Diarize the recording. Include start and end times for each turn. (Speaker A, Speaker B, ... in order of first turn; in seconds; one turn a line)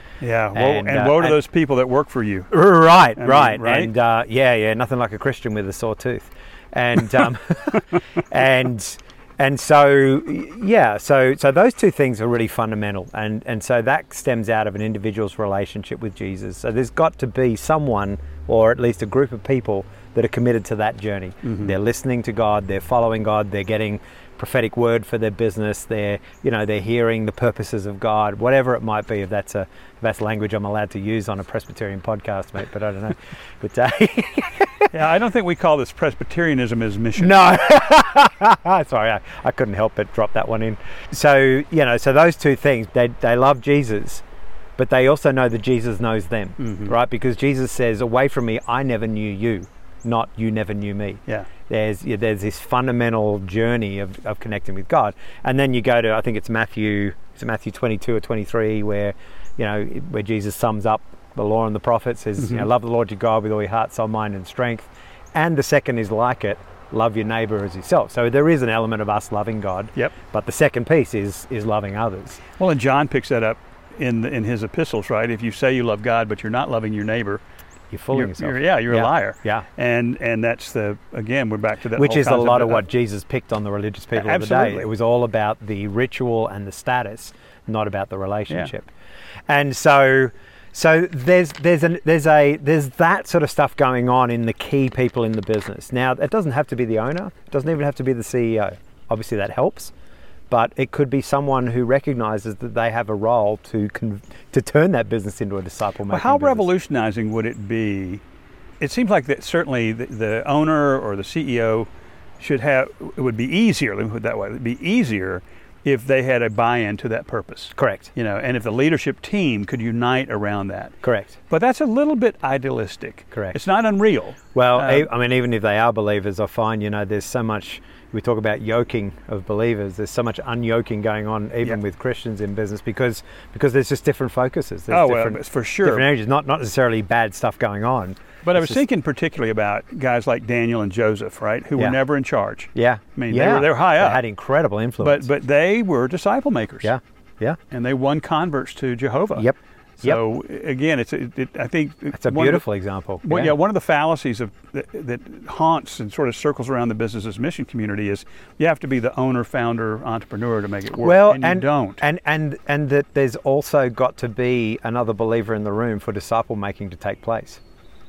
Speaker A: 0.2-2.5
Speaker B: 0.5-1.4
Speaker B: 2.5-34.9
Speaker A: 3.2-3.9
Speaker A: 21.4-21.7
Speaker A: 34.9-37.4
Speaker B: 37.2-44.2
Speaker B: 44.8-72.4
Speaker A: 46.6-47.0
Speaker A: 62.4-62.6
Speaker A: 72.6-77.4
Speaker B: 77.9-79.7
Speaker A: 78.1-82.8
Speaker B: 82.0-88.9
Speaker A: 84.1-84.9
Speaker B: 89.5-99.9
Speaker B: 100.5-106.7
Speaker A: 106.1-108.2
Speaker A: 108.8-121.0
Speaker B: 117.8-118.1
Speaker B: 121.0-121.4
Speaker A: 121.5-125.1
Speaker B: 124.5-138.8
Speaker A: 134.9-136.1
Speaker A: 138.4-144.2
Speaker B: 142.7-145.3
Speaker A: 145.0-146.9
Speaker B: 146.8-147.6
Speaker A: 147.7-149.5
Speaker B: 149.3-150.2
Speaker A: 150.0-152.6
Speaker B: 152.1-153.5
Speaker A: 153.2-162.0
Speaker B: 161.0-167.6